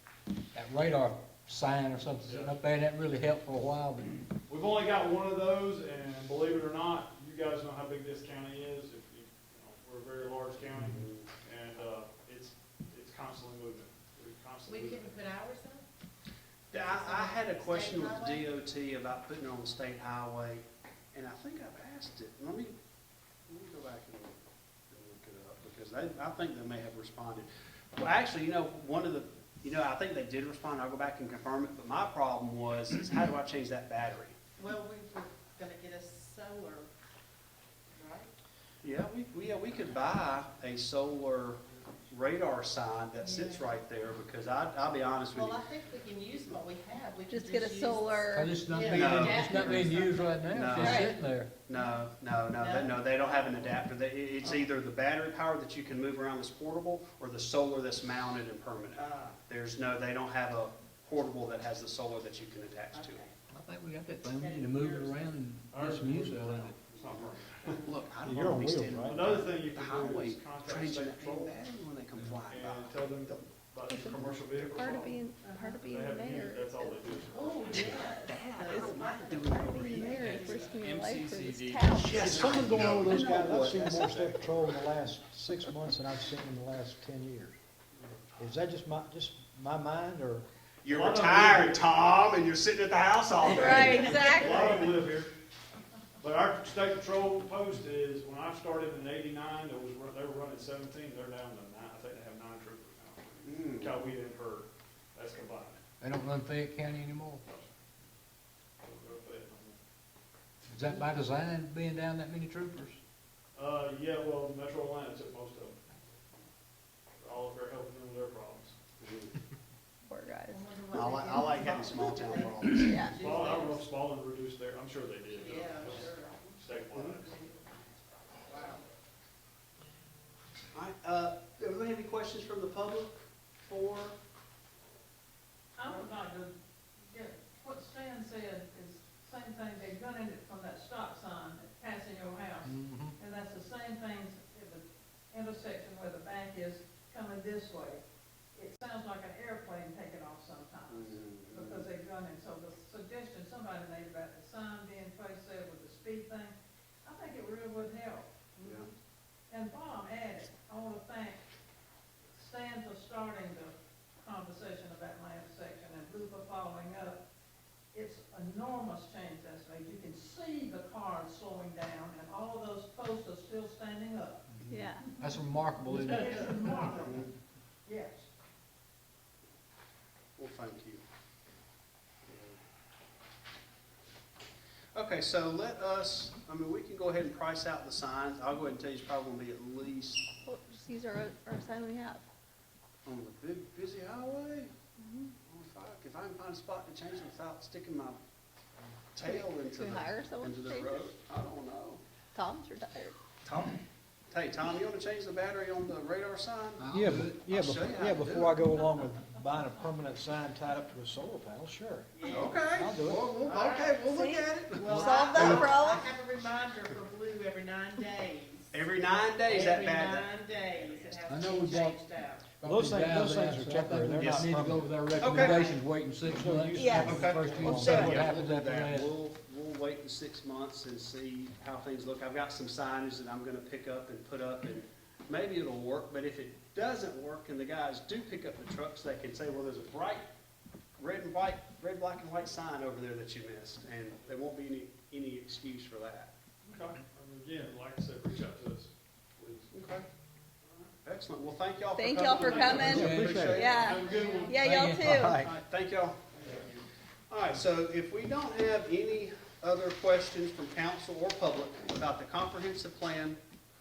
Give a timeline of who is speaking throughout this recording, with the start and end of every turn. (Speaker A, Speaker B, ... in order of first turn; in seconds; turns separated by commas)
Speaker A: 0.5-4.2, Speaker B: 2.2-2.5, Speaker B: 4.5-15.2, Speaker C: 10.9-11.2, Speaker D: 14.7-15.8, Speaker C: 16.7-22.8, Speaker D: 16.7-18.5, Speaker C: 23.5-34.4, Speaker D: 34.6-36.9, Speaker D: 37.9-38.3, Speaker C: 38.8-45.6, Speaker D: 43.2-43.6, Speaker D: 45.3-50.4, Speaker E: 47.3-48.6, Speaker A: 48.3-51.5, Speaker C: 48.9-49.9, Speaker C: 50.5-51.1, Speaker E: 50.8-51.1, Speaker C: 51.6-63.2, Speaker D: 52.5-53.8, Speaker D: 62.9-63.3, Speaker A: 63.5-66.8, Speaker D: 64.3-65.3, Speaker B: 65.7-67.8, Speaker C: 66.9-73.4, Speaker F: 68.2-69.3, Speaker B: 69.0-71.6, Speaker B: 72.3-75.2, Speaker E: 73.9-77.2, Speaker D: 75.4-75.8, Speaker B: 75.8-77.8, Speaker D: 77.3-80.8, Speaker C: 77.7-84.8, Speaker E: 78.7-82.5, Speaker F: 82.0-87.5, Speaker F: 88.4-90.5, Speaker C: 90.8-94.8, Speaker B: 90.9-91.8, Speaker E: 93.5-94.7, Speaker B: 93.6-95.3, Speaker B: 96.2-105.8, Speaker C: 103.4-103.9, Speaker A: 106.0-107.4, Speaker B: 107.4-107.7, Speaker B: 108.8-109.8, Speaker A: 110.7-113.0, Speaker B: 113.5-115.8, Speaker B: 117.2-118.8, Speaker C: 119.0-119.3, Speaker E: 120.0-120.6, Speaker D: 120.5-123.8, Speaker C: 120.9-123.1, Speaker E: 122.8-123.1, Speaker B: 123.1-127.4, Speaker D: 125.3-126.6, Speaker C: 126.9-127.2, Speaker D: 127.2-127.6, Speaker D: 128.4-128.8, Speaker C: 130.7-134.1, Speaker G: 135.8-148.0, Speaker A: 142.6-143.2, Speaker G: 148.5-158.9, Speaker C: 150.9-151.9, Speaker C: 158.6-158.9, Speaker G: 159.5-161.4, Speaker G: 162.3-167.2, Speaker G: 167.9-174.4, Speaker C: 174.6-174.9, Speaker E: 174.7-175.2, Speaker A: 175.2-176.9, Speaker G: 175.9-177.3, Speaker C: 177.0-177.3, Speaker G: 177.8-178.2, Speaker C: 180.4-181.0, Speaker C: 182.3-182.6, Speaker C: 184.9-190.3, Speaker E: 190.4-192.2, Speaker C: 193.0-194.7, Speaker E: 195.0-195.3, Speaker C: 195.5-198.2, Speaker C: 199.1-202.0, Speaker E: 199.2-201.1, Speaker E: 202.3-203.2, Speaker C: 204.3-206.8, Speaker A: 206.8-207.4, Speaker F: 206.9-212.1, Speaker C: 207.5-208.6, Speaker D: 212.2-212.6, Speaker C: 212.2-215.8, Speaker F: 212.7-213.3, Speaker D: 213.4-218.8, Speaker E: 214.1-216.0, Speaker C: 218.7-221.2, Speaker D: 219.4-222.5, Speaker A: 221.2-222.0, Speaker A: 222.6-229.1, Speaker F: 222.6-224.9, Speaker C: 224.2-224.5, Speaker C: 225.2-225.7, Speaker F: 226.2-228.2, Speaker E: 226.7-227.1, Speaker C: 227.0-240.3, Speaker C: 241.0-246.3, Speaker B: 246.6-249.7, Speaker C: 249.7-250.1, Speaker C: 251.0-254.2, Speaker E: 251.9-255.4, Speaker B: 252.3-254.7, Speaker F: 252.8-253.7, Speaker A: 252.9-253.5, Speaker A: 254.6-255.2, Speaker F: 255.0-255.5, Speaker C: 255.3-263.4, Speaker B: 256.3-256.6